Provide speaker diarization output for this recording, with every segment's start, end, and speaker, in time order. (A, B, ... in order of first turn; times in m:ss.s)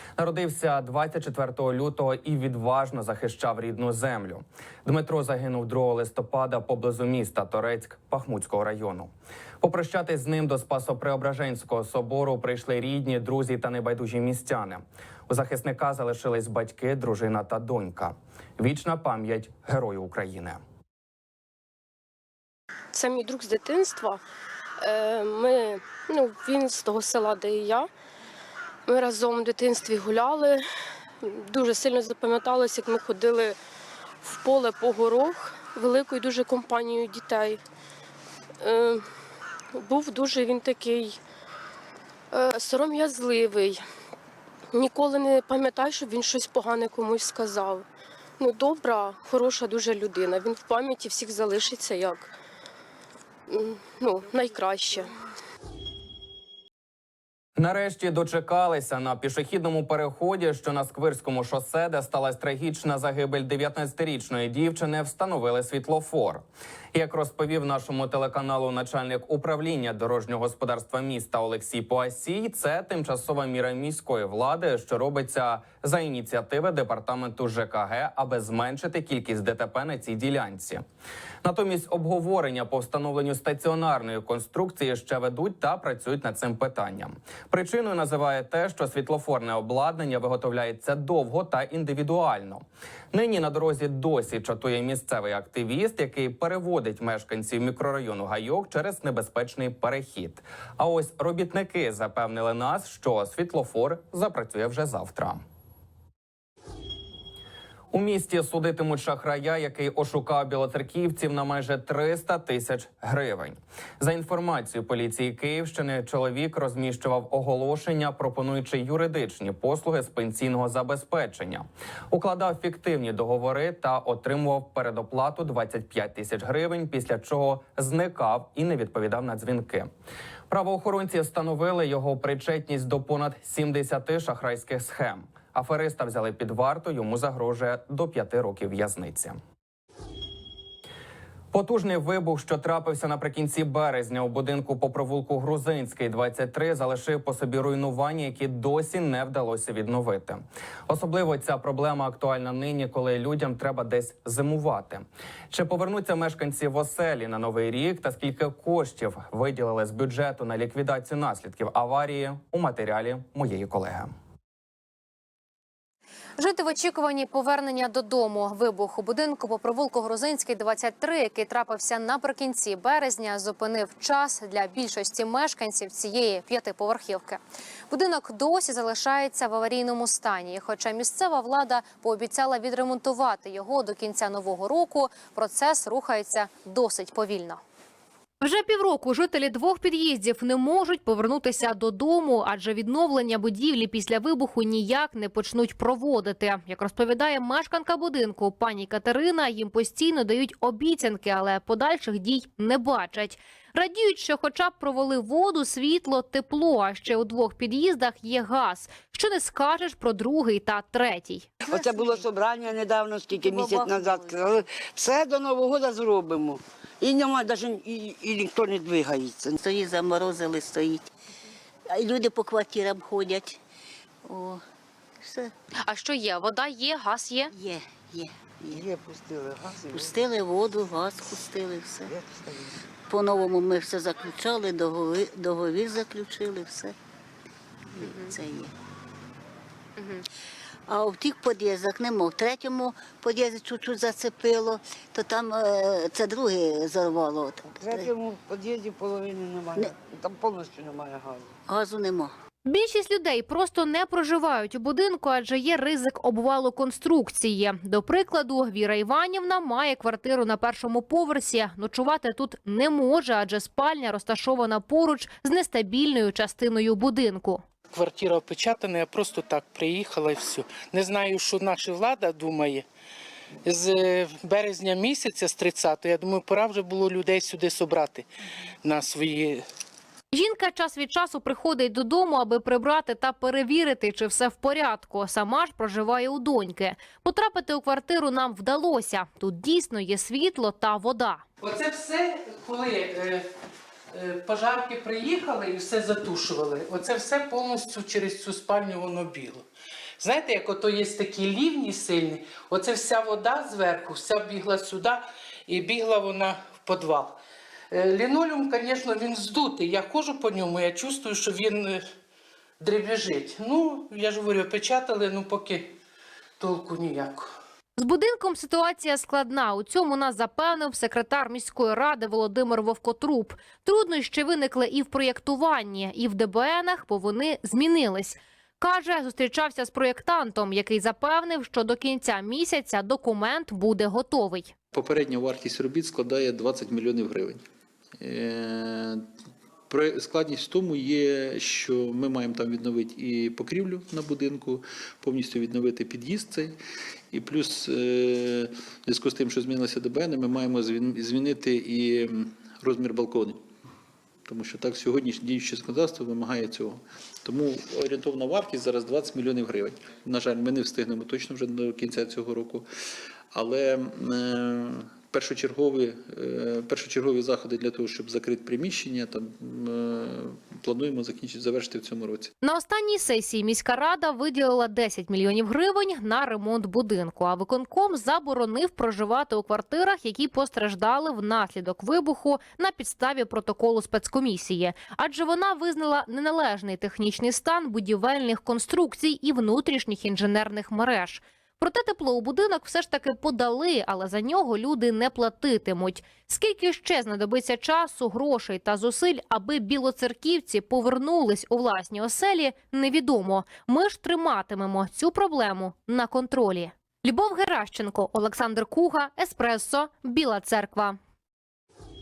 0:00.2-0:09.1 A
0:09.6-0:20.6 A
0:22.9-0:24.2 B
0:24.8-0:27.9 B
0:28.9-0:30.6 B
0:31.2-0:33.6 B
0:34.2-0:37.6 B
0:38.6-0:39.1 B
0:39.7-0:41.2 B
0:42.3-0:43.8 B
0:44.7-0:47.9 B
0:48.4-0:52.4 B
0:53.5-0:55.1 B
0:57.6-1:20.8 A
1:21.4-1:45.4 A
1:47.9-2:09.9 A
2:10.5-2:19.4 A
2:21.5-2:44.1 A
2:46.4-3:07.6 C
3:08.4-3:31.5 C
3:31.7-3:39.6 D
3:31.7-3:32.2 E
3:33.3-3:34.7 E
3:39.6-3:41.1 E
3:41.9-3:43.6 E
3:44.3-3:44.6 E
3:45.2-3:45.5 E
3:45.8-3:47.5 C
3:47.5-3:48.9 E
3:48.7-3:50.3 D
3:49.9-3:52.1 E
3:52.1-3:52.7 D
3:53.1-3:57.0 E
3:58.0-3:58.7 E
4:00.9-4:08.1 E
4:07.8-4:11.6 D
4:11.7-4:12.3 E
4:12.6-4:27.6 C
4:27.9-4:32.8 F
4:33.6-4:38.3 F
4:38.8-4:39.7 F
4:40.3-4:51.4 C
4:51.6-4:53.5 F
4:54.1-4:59.7 F
5:00.2-5:07.4 F
5:07.9-5:12.1 F
5:12.8-5:16.0 F
5:16.6-5:17.6 F
5:18.0-5:34.7 C
5:34.9-5:37.6 G
5:38.2-5:39.2 G
5:39.9-5:46.8 G
5:47.3-5:53.6 G
5:54.5-6:02.9 G
6:03.5-6:12.5 G
6:12.6-6:51.2 C